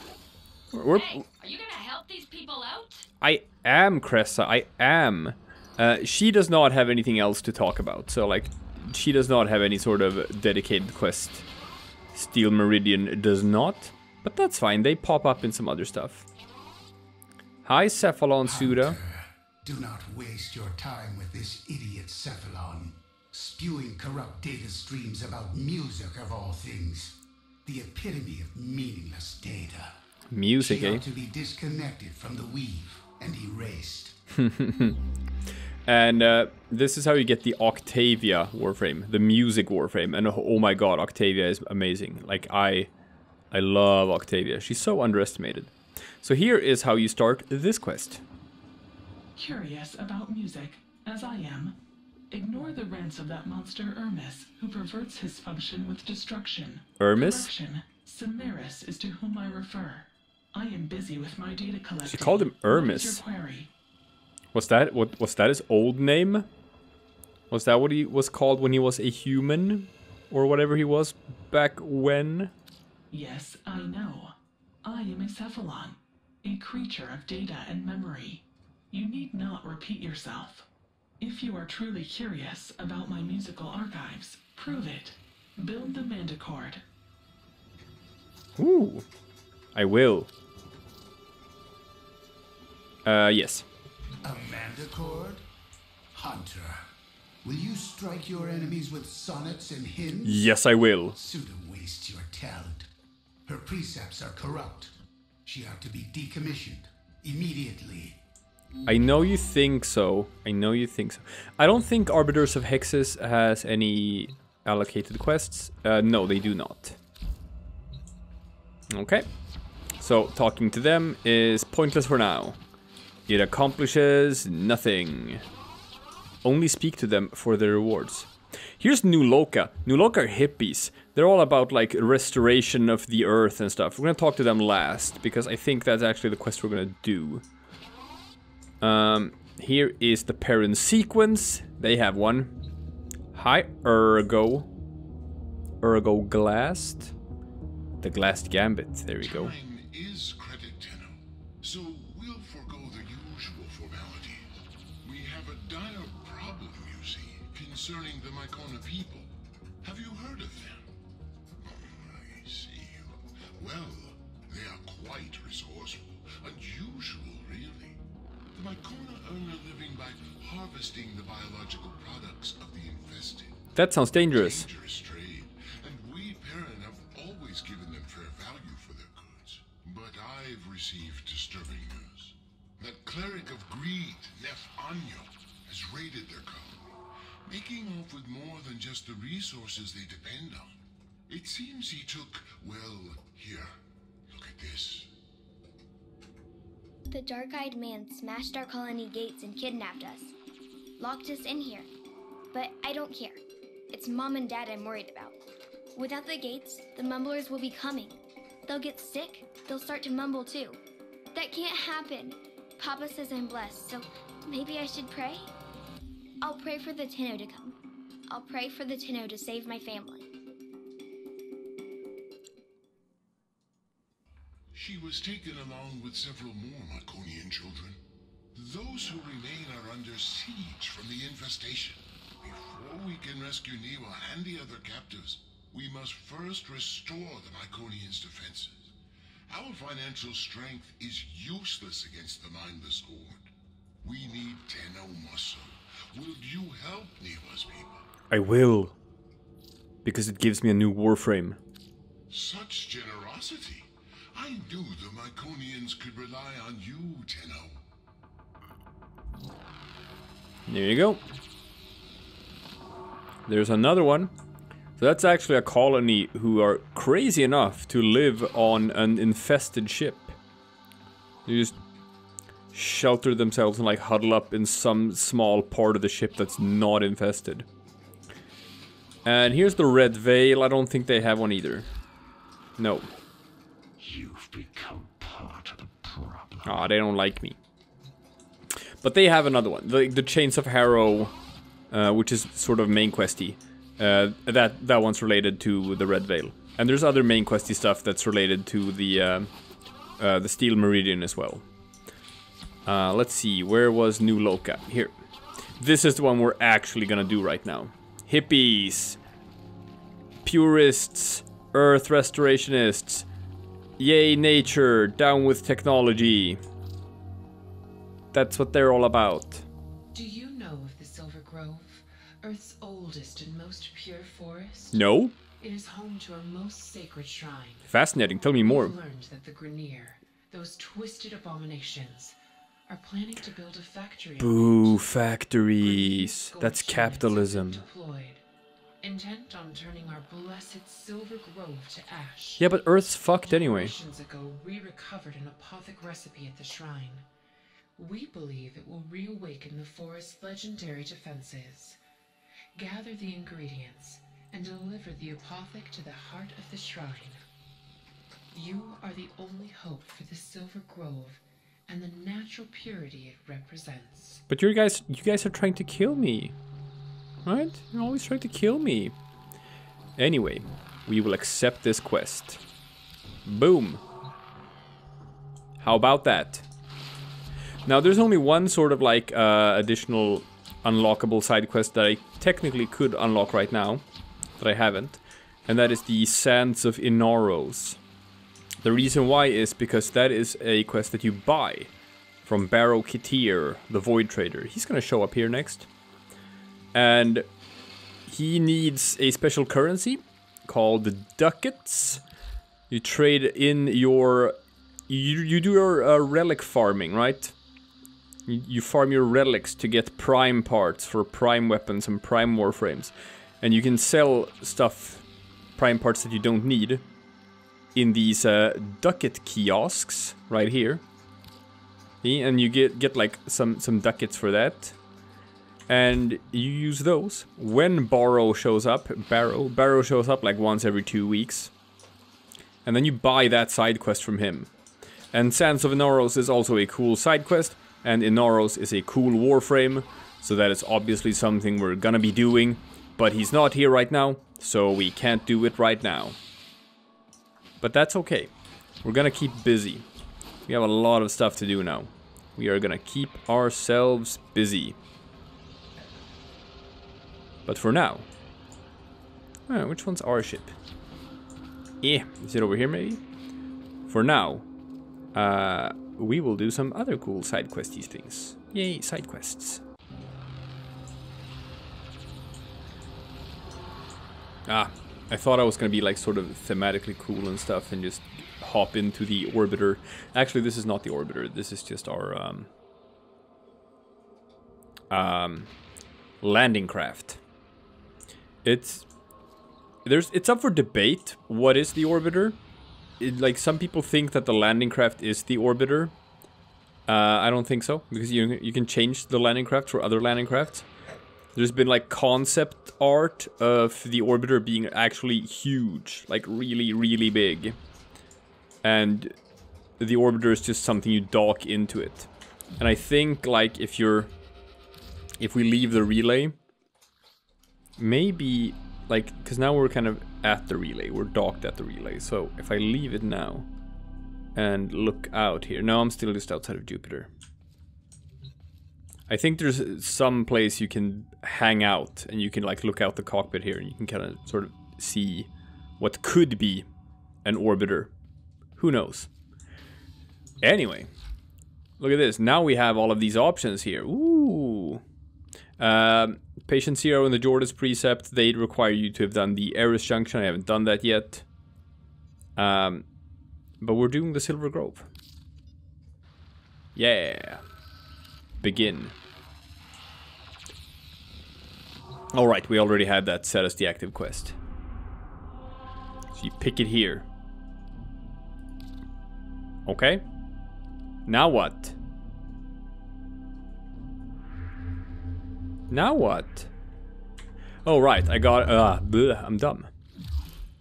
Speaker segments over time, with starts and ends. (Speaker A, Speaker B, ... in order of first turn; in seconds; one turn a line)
Speaker A: 0.7-1.2
Speaker B: 0.9-3.0
Speaker A: 3.2-11.4
Speaker A: 12.1-16.3
Speaker A: 17.6-19.0
Speaker C: 18.4-29.9
Speaker A: 30.3-31.0
Speaker C: 30.6-34.2
Speaker A: 34.4-35.0
Speaker A: 35.9-42.9
Speaker A: 43.5-48.2
Speaker D: 49.4-51.8
Speaker D: 52.3-63.7
Speaker A: 57.0-57.5
Speaker A: 62.0-63.2
Speaker A: 64.5-66.5
Speaker A: 67.5-72.5
Speaker D: 73.1-80.7
Speaker D: 81.2-86.8
Speaker A: 88.6-89.0
Speaker A: 89.7-90.3
Speaker A: 93.0-93.7
Speaker C: 94.2-95.4
Speaker C: 96.1-96.8
Speaker C: 97.4-100.5
Speaker A: 100.2-101.2
Speaker C: 101.1-102.9
Speaker C: 103.5-104.9
Speaker C: 105.4-108.2
Speaker A: 108.9-117.0
Speaker A: 118.9-119.2
Speaker A: 120.0-122.6
Speaker A: 123.3-125.4
Speaker A: 126.4-137.4
Speaker A: 138.8-142.5
Speaker A: 143.3-144.7
Speaker A: 145.8-147.1
Speaker A: 148.0-149.5
Speaker E: 149.2-159.3
Speaker E: 159.8-160.9
Speaker E: 161.6-168.0
Speaker E: 168.5-173.6
Speaker A: 173.8-174.7
Speaker E: 174.3-186.9
Speaker E: 187.5-190.8
Speaker E: 191.3-193.8
Speaker E: 194.3-195.1
Speaker F: 197.1-200.3
Speaker F: 201.0-201.9
Speaker F: 202.5-203.4
Speaker F: 203.9-205.3
Speaker F: 205.9-210.8
Speaker F: 211.3-215.5
Speaker F: 216.4-217.8
Speaker F: 218.3-220.3
Speaker E: 224.7-228.0
Speaker E: 228.6-238.9
Speaker E: 239.5-243.4
Speaker E: 244.0-248.1
Speaker A: 248.3-249.0
Speaker A: 250.1-251.6
Speaker E: 252.3-257.7
Speaker A: 260.7-261.2
Speaker A: 263.5-264.3
Speaker A: 265.0-270.4
Speaker A: 271.4-271.8
Speaker A: 272.7-277.7
Speaker A: 279.2-281.9
Speaker A: 282.8-283.1
Speaker E: 284.0-286.7
Speaker A: 286.6-287.6
Speaker A: 289.0-291.3
Speaker A: 291.9-299.5
Speaker A: 300.2-301.6
Speaker A: 302.9-305.1
Speaker A: 305.8-309.2
Speaker A: 310.4-313.3
Speaker A: 314.0-316.6
Speaker A: 318.3-319.7
Speaker G: 320.1-325.0
Speaker A: 324.9-325.4
Speaker G: 325.6-327.9
Speaker A: 327.9-328.9
Speaker G: 328.6-332.4
Speaker G: 332.9-335.1
Speaker A: 334.4-337.8
Speaker G: 335.8-338.4
Speaker G: 339.0-347.2
Speaker A: 342.6-343.9
Speaker G: 348.0-352.0
Speaker G: 352.8-357.4
Speaker G: 358.5-364.4
Speaker A: 364.5-366.6
Speaker A: 367.4-369.1
Speaker A: 370.2-372.6
Speaker A: 373.4-374.0
Speaker A: 375.8-376.7
Speaker A: 377.9-384.0
Speaker A: 384.6-388.0
Speaker A: 388.8-391.9
Speaker A: 392.4-395.9
Speaker A: 396.9-397.4
Speaker A: 398.3-402.2
Speaker A: 402.9-404.6
Speaker A: 405.1-407.6
Speaker A: 408.5-415.2
Speaker A: 415.8-417.0
Speaker A: 417.9-421.0
Speaker A: 422.2-425.0
Speaker A: 425.9-431.7
Speaker A: 432.8-434.7
Speaker A: 435.3-446.4
Speaker A: 447.8-448.5
Speaker A: 449.0-450.1
Speaker A: 450.7-455.0
Speaker A: 457.7-458.3
Speaker A: 459.7-460.7
Speaker A: 462.0-463.2
Speaker A: 464.1-464.7
Speaker A: 465.3-469.8
Speaker A: 474.7-482.7
Speaker A: 485.1-485.7
Speaker A: 486.4-487.4
Speaker A: 488.6-489.1
Speaker A: 490.1-492.6
Speaker A: 493.2-496.1
Speaker A: 497.1-500.9
Speaker A: 501.6-507.8
Speaker A: 508.8-509.3
Speaker A: 510.0-512.3
Speaker A: 512.8-514.3
Speaker A: 515.4-516.5
Speaker A: 518.0-523.7
Speaker A: 524.5-527.3
Speaker A: 529.3-535.5
Speaker A: 536.0-536.9
Speaker A: 537.4-538.1
Speaker A: 538.8-539.3
Speaker A: 540.6-541.1
Speaker A: 542.0-545.0
Speaker A: 545.8-551.5
Speaker A: 552.6-553.1
Speaker A: 553.8-555.1
Speaker A: 557.0-557.6
Speaker A: 558.6-559.1
Speaker A: 562.3-564.6
Speaker A: 566.3-567.3
Speaker A: 569.9-570.2
Speaker A: 571.3-572.0
Speaker A: 575.9-576.7
Speaker A: 577.9-579.9